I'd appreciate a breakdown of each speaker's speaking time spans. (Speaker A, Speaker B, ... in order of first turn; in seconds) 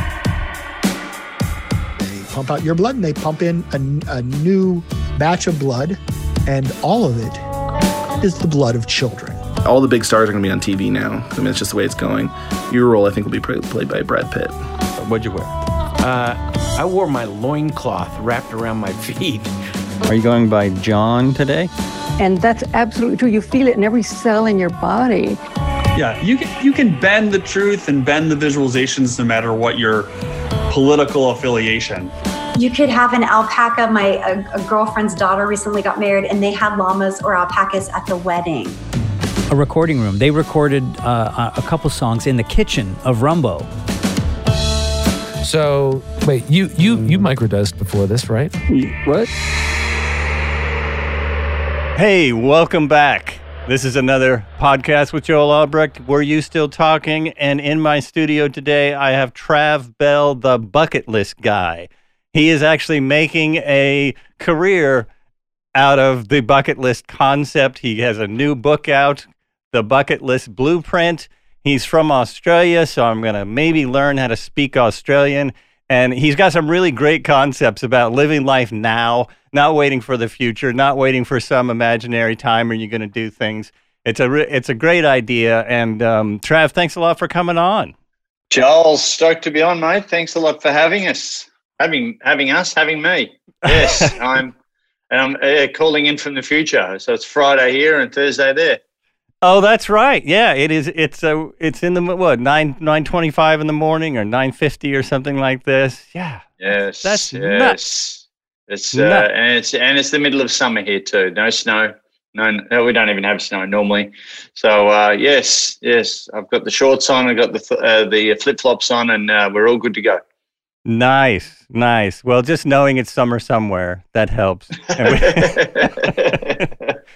Speaker A: 2.0-7.4, 8.2-9.4
Speaker B: 9.6-14.5
Speaker C: 16.0-19.5
Speaker D: 20.1-21.7, 48.7-49.3, 51.9-65.1, 65.7-87.9, 93.7-94.2, 99.4-107.8, 108.9-109.2, 120.8-126.1
Speaker E: 22.2-25.4
Speaker F: 25.9-30.1, 30.7-32.1
Speaker G: 32.5-38.8
Speaker H: 39.5-43.7
Speaker I: 45.4-48.6
Speaker J: 88.5-94.5, 95.1-98.8, 106.6-120.2, 124.9-127.0